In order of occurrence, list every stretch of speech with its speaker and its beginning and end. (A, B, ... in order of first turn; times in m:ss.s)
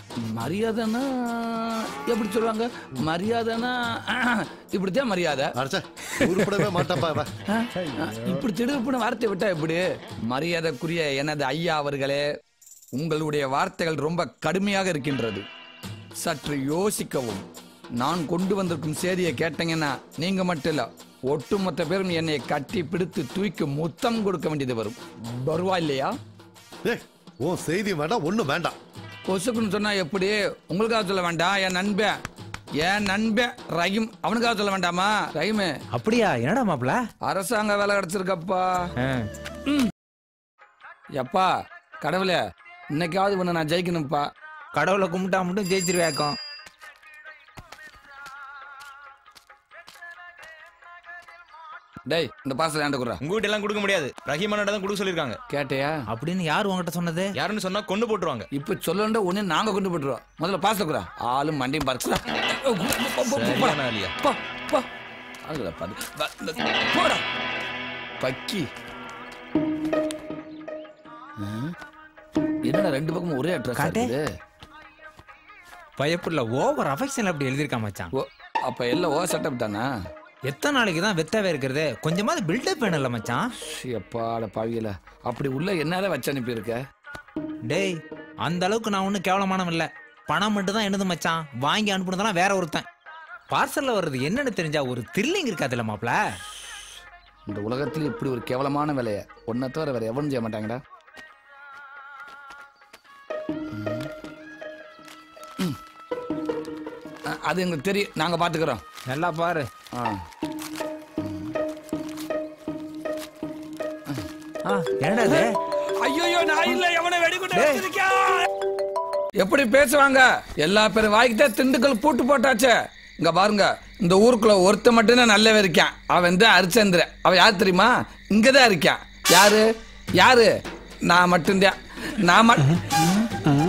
0:00.2-0:05.5 A
0:05.6-0:07.3 B
0:07.5-0:12.2 A
0:13.0-0:15.4 A
0:16.2-0:17.4 A
0:18.0-0:26.1 A
0:26.8-0:28.7 B
0:29.3-0:32.1 A
0:32.8-0:35.7 A
0:35.9-0:37.0 C
0:37.2-0:38.6 A
0:41.2-0:41.5 A
0:42.0-0:42.4 A
0:43.0-0:44.3 A
0:44.7-0:46.3 C
0:52.1-0:53.2 A
0:53.2-0:55.4 D
0:55.5-0:55.9 A
0:56.1-0:57.3 C
0:57.4-0:58.4 D
0:58.5-1:04.8 A
1:03.3-1:04.1 D
1:05.5-1:07.2 A
1:08.2-1:08.6 A
1:11.4-1:11.7 A
1:12.6-1:14.2 A
1:13.8-1:14.1 C
1:16.0-1:18.1 C
1:18.2-1:19.9 A
1:20.5-1:23.4 C
1:23.7-1:26.8 A
1:27.7-1:32.8 C
1:33.5-1:36.1 C
1:37.5-1:40.8 A
1:43.7-1:44.1 A
1:47.3-1:48.8 A
1:49.1-1:49.7 C
1:51.2-1:51.5 A
1:54.6-1:55.5 C
1:55.2-1:55.5 A
1:56.0-1:58.5 A
1:57.5-1:57.8 C
1:59.4-2:09.6 A
2:10.2-2:10.5 A
2:11.1-2:13.2 A